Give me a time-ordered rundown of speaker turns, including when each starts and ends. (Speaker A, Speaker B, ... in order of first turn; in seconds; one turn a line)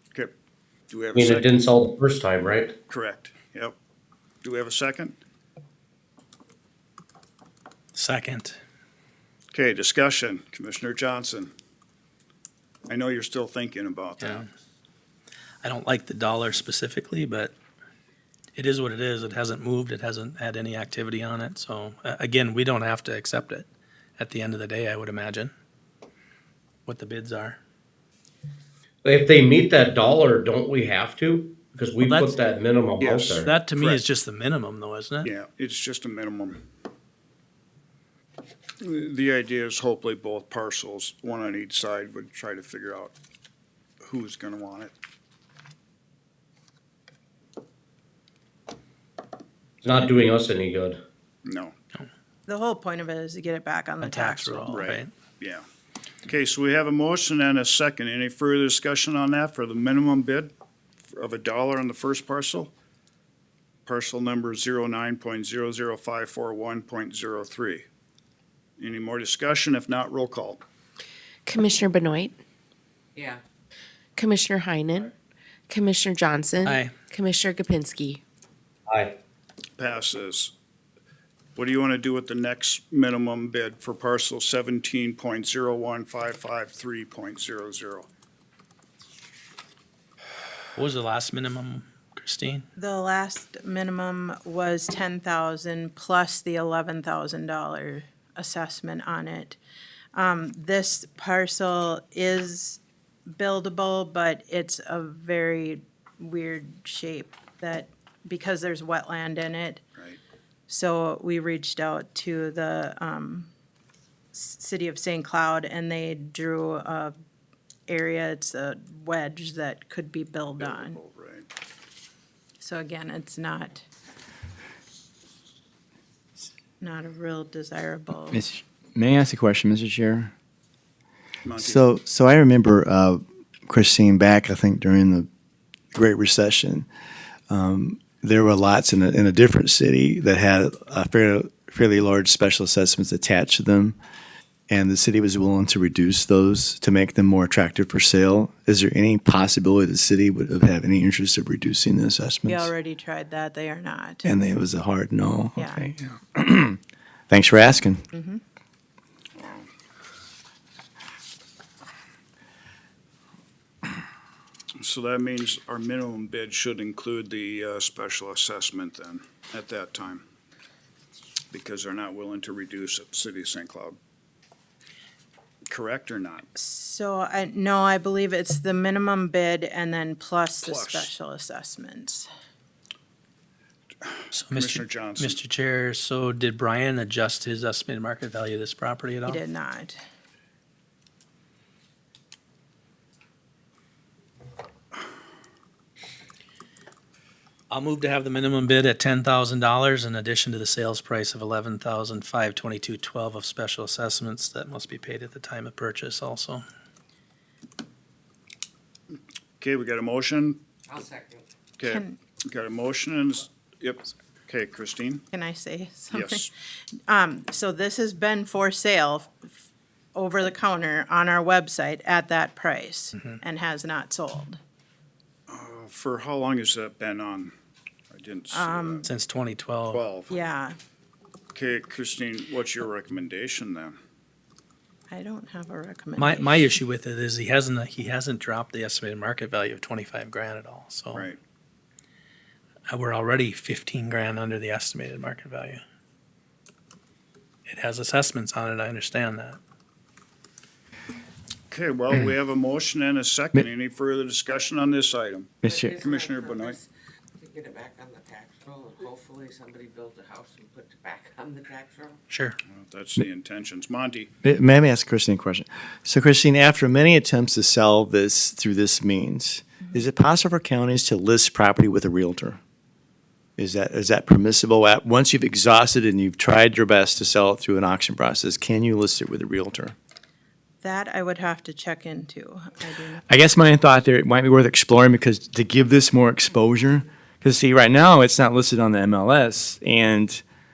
Speaker A: 0.9-1.6
Speaker B: 1.1-2.8
Speaker A: 2.9-3.8
Speaker A: 4.4-5.2
Speaker C: 7.9-8.6
Speaker A: 9.5-11.5
Speaker A: 12.8-14.5
Speaker C: 14.2-14.5
Speaker C: 15.6-17.5
Speaker C: 18.5-23.7
Speaker C: 24.2-25.5
Speaker C: 26.9-27.6
Speaker B: 29.0-33.5
Speaker C: 32.0-32.4
Speaker A: 33.0-34.0
Speaker C: 33.4-35.3
Speaker A: 35.2-36.6
Speaker A: 38.8-43.1
Speaker A: 44.0-44.9
Speaker B: 49.8-51.0
Speaker A: 51.4-51.7
Speaker D: 52.5-54.8
Speaker C: 54.0-55.1
Speaker A: 54.7-55.6
Speaker A: 56.2-60.5
Speaker A: 61.1-62.7
Speaker A: 63.8-67.8
Speaker A: 68.8-70.6
Speaker E: 71.5-72.4
Speaker F: 73.2-73.4
Speaker E: 74.2-75.1
Speaker E: 75.7-78.2
Speaker C: 76.6-76.9
Speaker B: 78.9-79.2
Speaker A: 79.8-80.5
Speaker A: 81.5-88.1
Speaker C: 90.8-92.7
Speaker D: 92.8-99.6
Speaker D: 100.1-109.9
Speaker D: 110.7-113.5
Speaker D: 114.3-117.1
Speaker D: 117.9-121.0
Speaker A: 120.6-121.5
Speaker D: 122.6-123.8
Speaker D: 126.8-128.4
Speaker G: 128.3-130.3
Speaker A: 131.4-131.8
Speaker G: 131.6-135.3
Speaker G: 135.9-136.9
Speaker G: 137.5-144.0
Speaker G: 144.7-152.7
Speaker D: 152.5-154.2
Speaker G: 154.2-158.0
Speaker D: 155.6-155.8
Speaker D: 158.1-158.4
Speaker A: 159.3-159.7
Speaker A: 164.8-170.2
Speaker A: 171.5-174.0
Speaker A: 175.7-176.4
Speaker D: 176.5-182.3
Speaker A: 180.6-181.1
Speaker A: 184.0-185.4
Speaker C: 184.3-189.4
Speaker D: 189.3-190.0
Speaker C: 197.7-206.6
Speaker A: 209.6-210.6
Speaker F: 210.9-211.4
Speaker A: 211.8-215.2
Speaker D: 211.8-212.2
Speaker D: 215.3-216.5
Speaker A: 216.1-216.5
Speaker D: 217.1-219.5
Speaker D: 220.1-224.6
Speaker A: 225.5-227.5
Speaker A: 228.1-229.1
Speaker D: 228.5-229.0
Speaker C: 229.0-230.0
Speaker A: 229.9-230.4
Speaker D: 230.3-230.8
Speaker A: 231.5-234.0
Speaker D: 235.1-236.7
Speaker C: 236.2-241.3
Speaker A: 241.1-241.4
Speaker C: 242.9-245.8
Speaker C: 247.7-249.6
Speaker A: 251.7-256.8
Speaker G: 255.6-256.0
Speaker F: 255.6-256.9
Speaker F: 257.4-262.2
Speaker C: 262.3-262.6
Speaker A: 262.7-264.3
Speaker G: 264.4-272.6
Speaker G: 273.6-279.9
Speaker D: 280.8-283.2
Speaker G: 283.3-290.4